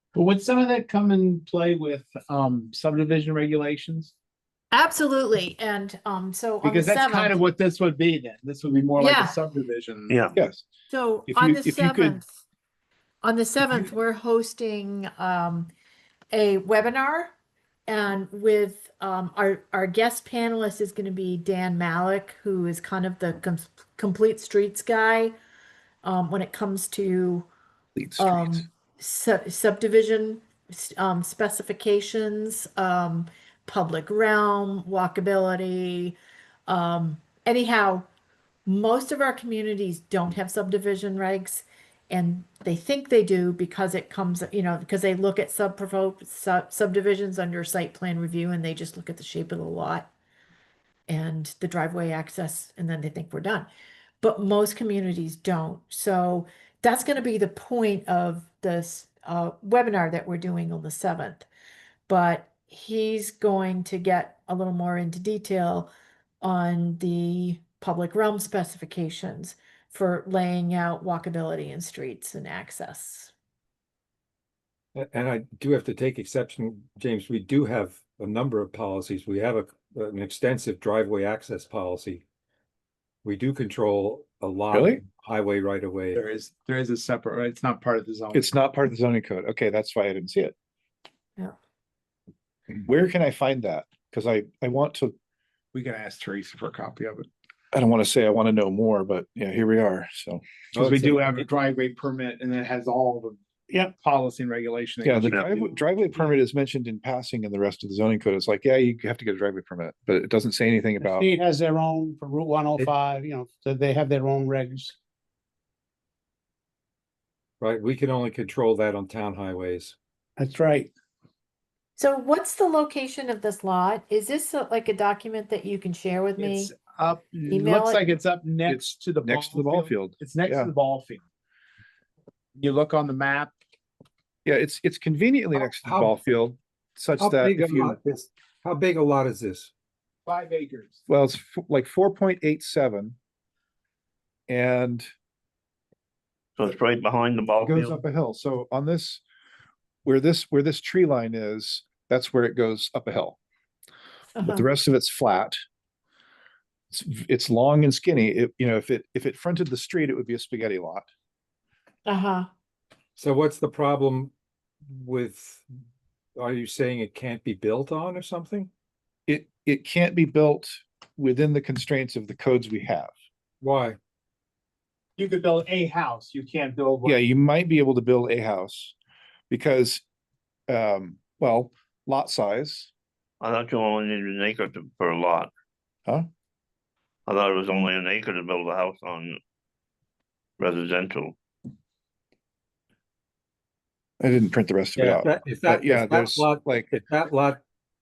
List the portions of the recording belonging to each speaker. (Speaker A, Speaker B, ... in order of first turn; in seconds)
Speaker A: 0.1-4.1, 6.6-10.2, 86.1-88.5, 95.7-97.3, 100.8-105.8, 126.4-131.2, 132.6-133.5, 140.3-141.0, 175.2-177.2
Speaker B: 4.7-7.4, 9.0-9.4, 10.9-12.3, 13.2-15.7, 16.3-17.3, 17.9-25.3, 26.0-27.5, 28.2-38.1, 38.7-50.1, 51.1-53.7, 54.2-61.5, 62.1-73.3, 122.0-126.8, 127.5-128.1, 154.3-154.7, 162.1-162.5
Speaker C: 10.1-10.3, 146.6-148.0, 183.4-185.5, 187.3-189.4, 190.6-191.3
Speaker D: 10.4-10.6, 11.3-12.2, 27.9-28.7, 84.7-85.0, 88.3-90.5, 92.8-95.2, 97.7-100.4, 105.0-111.3, 128.7-130.7, 134.4-138.0, 141.1-143.2, 144.5-145.1, 147.6-149.2, 150.1-153.4, 154.4-155.6, 156.9-161.1, 169.3-173.1, 177.1-178.9, 179.5-180.0, 180.7-182.9, 194.2-196.9
Speaker E: 75.0-82.2, 83.2-86.2, 100.8-101.5, 117.6-120.0, 135.5-136.2, 137.2-139.7, 163.2-164.3, 164.9-165.7, 166.4-168.7, 173.6-174.0, 195.0-197.6
Speaker F: 111.0-114.9, 120.4-120.9